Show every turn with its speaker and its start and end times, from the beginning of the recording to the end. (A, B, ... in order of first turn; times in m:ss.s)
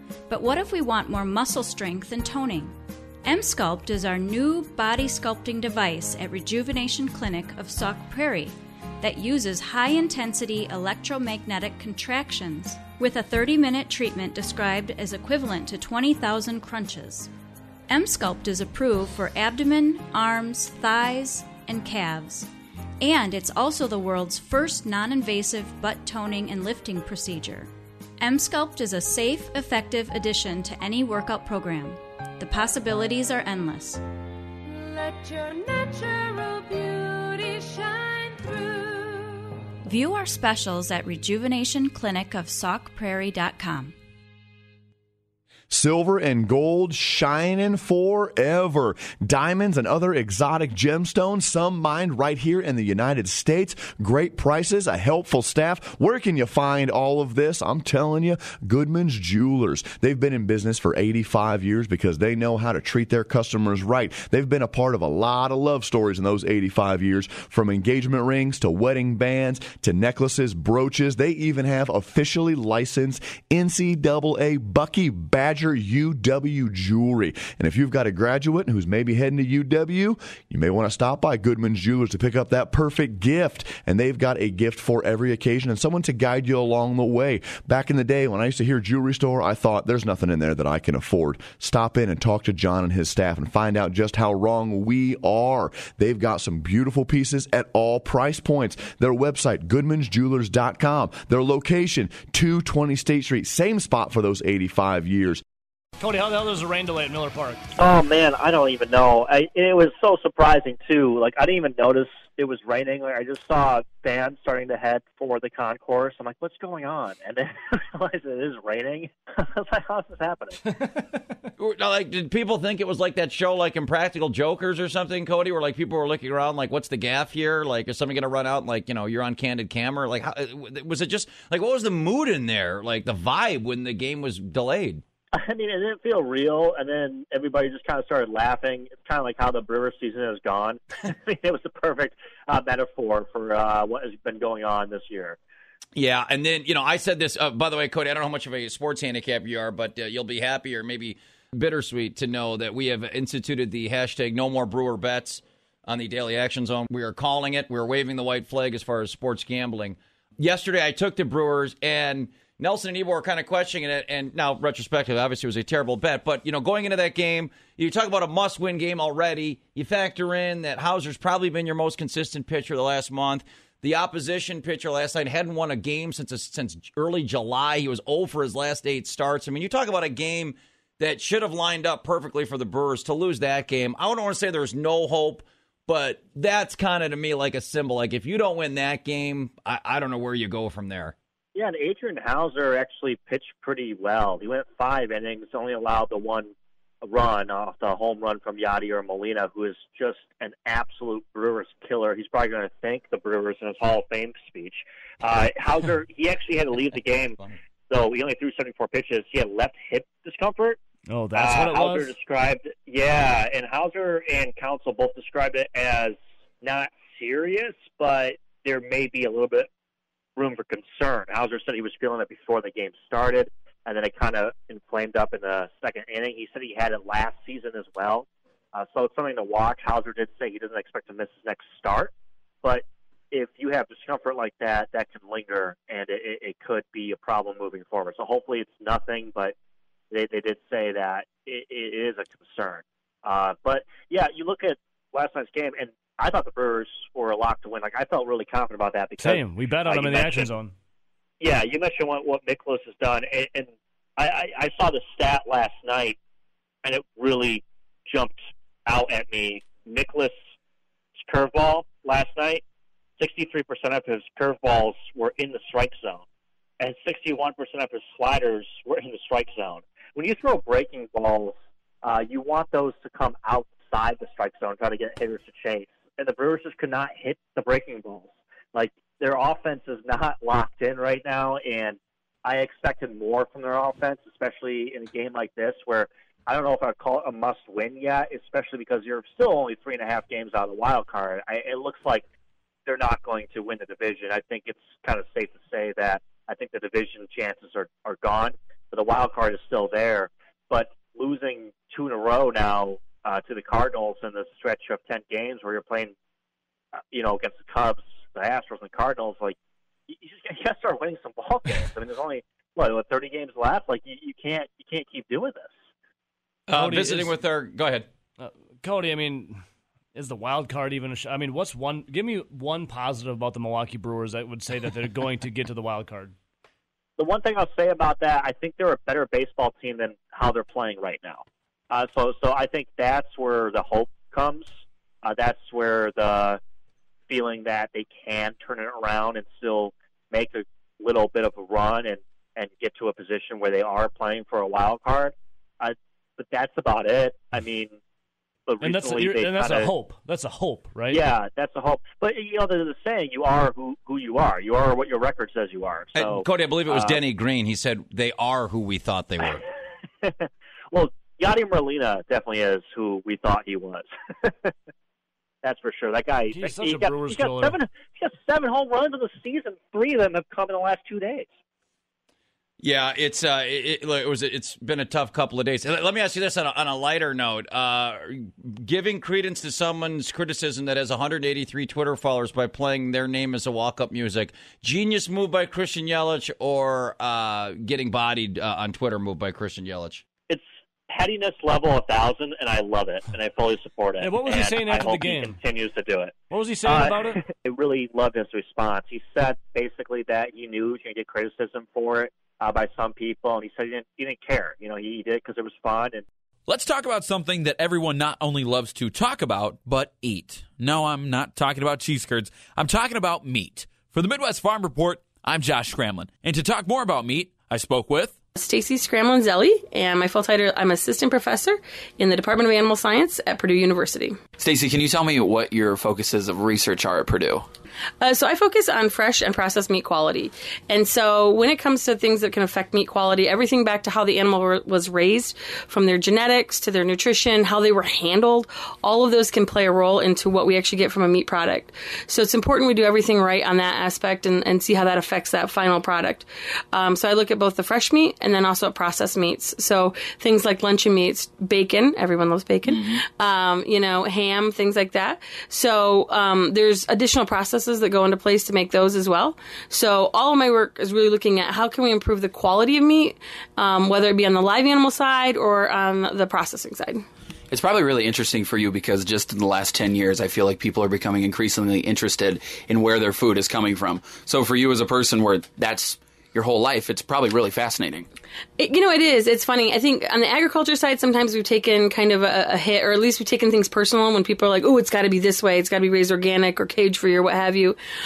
0:00.3-0:17.3 A
0:17.9-0:22.5 A
0:23.0-0:34.0 A
0:34.7-0:39.5 B
0:39.8-0:44.0 A
0:45.7-1:45.4 C
1:46.0-1:47.6 D
1:47.8-2:00.6 E
2:01.6-2:15.0 F
2:15.3-2:25.4 E
2:26.0-3:11.2 F
3:11.6-3:30.8 E
3:31.1-3:32.1 D
3:31.4-3:39.7 E
3:40.4-3:52.1 E
3:52.6-3:59.5 E
4:00.1-4:10.5 E
4:09.2-4:10.7 D
4:11.4-4:16.2 E
4:16.8-4:20.4 E
4:21.2-4:22.6 E
4:23.2-4:26.2 E
4:26.8-4:52.2 E
4:52.9-5:06.1 E
5:07.0-5:09.6 E
5:10.1-5:15.8 E
5:16.7-5:18.1 F
5:16.8-5:17.3 D
5:18.4-5:19.6 D
5:20.2-5:26.3 D
5:27.2-5:36.6 E
5:37.3-5:48.0 E
5:48.7-5:49.9 E
5:48.8-5:51.2 D
5:51.1-5:57.2 E
5:56.2-5:59.6 F
6:00.2-6:04.7 E
6:05.6-6:11.5 E
6:06.5-6:07.7 D
6:12.8-6:30.2 F
6:30.5-6:46.2 E
6:34.2-6:35.6 D
6:36.5-6:37.4 D
6:46.7-6:58.4 G
6:58.6-7:04.4 H
7:04.6-7:07.7 I
7:08.2-7:47.2 H
7:32.9-7:33.2 I
7:47.7-7:58.3 I
7:58.8-8:08.0 H